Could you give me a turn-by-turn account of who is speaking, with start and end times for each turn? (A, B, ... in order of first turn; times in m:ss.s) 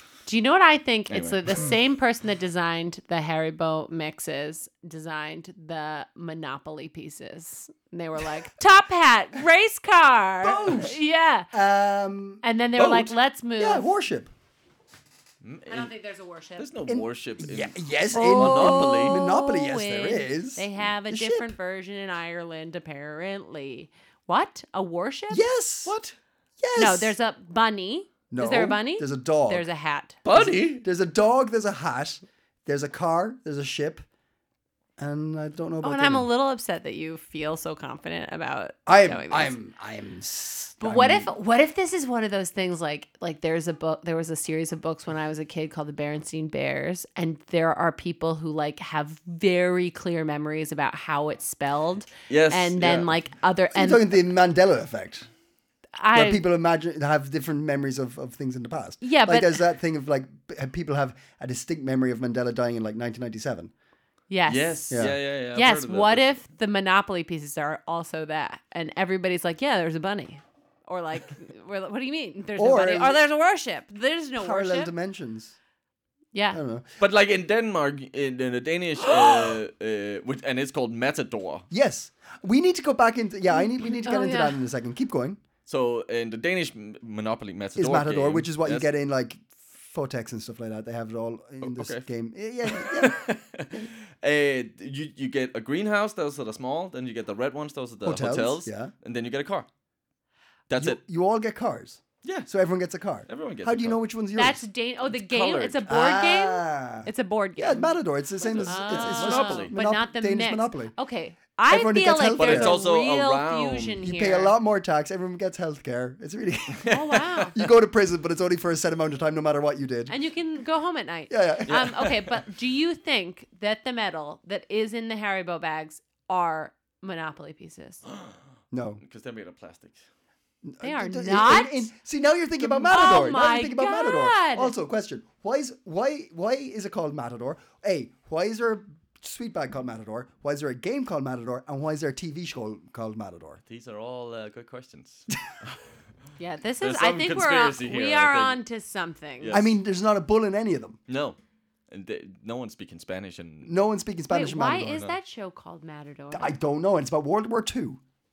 0:00.3-0:11.5 A
0:01.1-0:01.4 B
0:10.4-0:11.0 C
0:11.5-0:14.3 C
0:12.4-0:13.9 A
0:15.4-0:15.9 B
0:15.7-0:16.7 A
0:16.6-0:19.3 B
0:16.9-0:21.5 C
0:18.1-0:25.5 A
0:25.3-0:26.0 C
0:25.8-0:26.2 B
0:26.6-0:27.2 C
0:26.8-0:30.2 A
0:28.3-0:29.7 C
0:30.2-0:30.8 B
0:30.3-0:34.0 C
0:35.0-0:36.3 C
0:35.8-0:39.6 A
0:38.9-0:41.3 C
0:40.8-0:54.2 A
0:52.3-0:53.1 B
0:53.7-0:55.3 C
0:56.0-0:56.4 A
0:56.1-1:03.7 C
0:59.0-0:59.6 A
1:04.3-1:14.9 A
1:04.5-1:06.5 B
1:04.9-1:05.2 C
1:12.6-1:13.2 C
1:14.4-1:15.6 C
1:16.3-1:16.6 A
1:16.5-1:16.8 C
1:17.0-1:21.6 B
1:21.7-1:25.4 C
1:23.6-1:24.6 A
1:25.7-1:28.9 B
1:27.8-1:33.2 C
1:31.6-1:32.1 B
1:32.7-1:39.7 B
1:38.0-1:38.9 C
1:40.7-1:41.0 B
1:40.8-1:44.6 C
1:42.2-1:42.5 B
1:43.3-1:44.0 B
1:44.4-1:54.6 A
1:45.0-1:45.8 B
1:45.9-1:51.0 C
1:48.4-1:49.8 B
1:51.7-1:52.8 C
1:52.4-1:54.0 B
1:54.0-1:57.0 C
1:56.9-1:57.6 A
1:57.5-2:00.1 C
2:00.1-2:08.0 A
2:01.3-2:02.0 C
2:01.7-2:02.3 B
2:08.1-2:08.4 B
2:08.7-2:09.0 C
2:09.0-2:10.0 B
2:10.6-2:23.6 C
2:10.8-2:11.9 A
2:12.7-2:14.7 A
2:23.7-2:25.8 B
2:26.4-2:29.6 A
2:26.8-2:28.6 B
2:29.4-2:29.8 B
2:29.5-2:31.0 C
2:31.1-2:31.4 B
2:31.9-2:33.7 B
2:33.6-2:35.1 C
2:34.3-2:36.6 A
2:36.3-2:38.0 C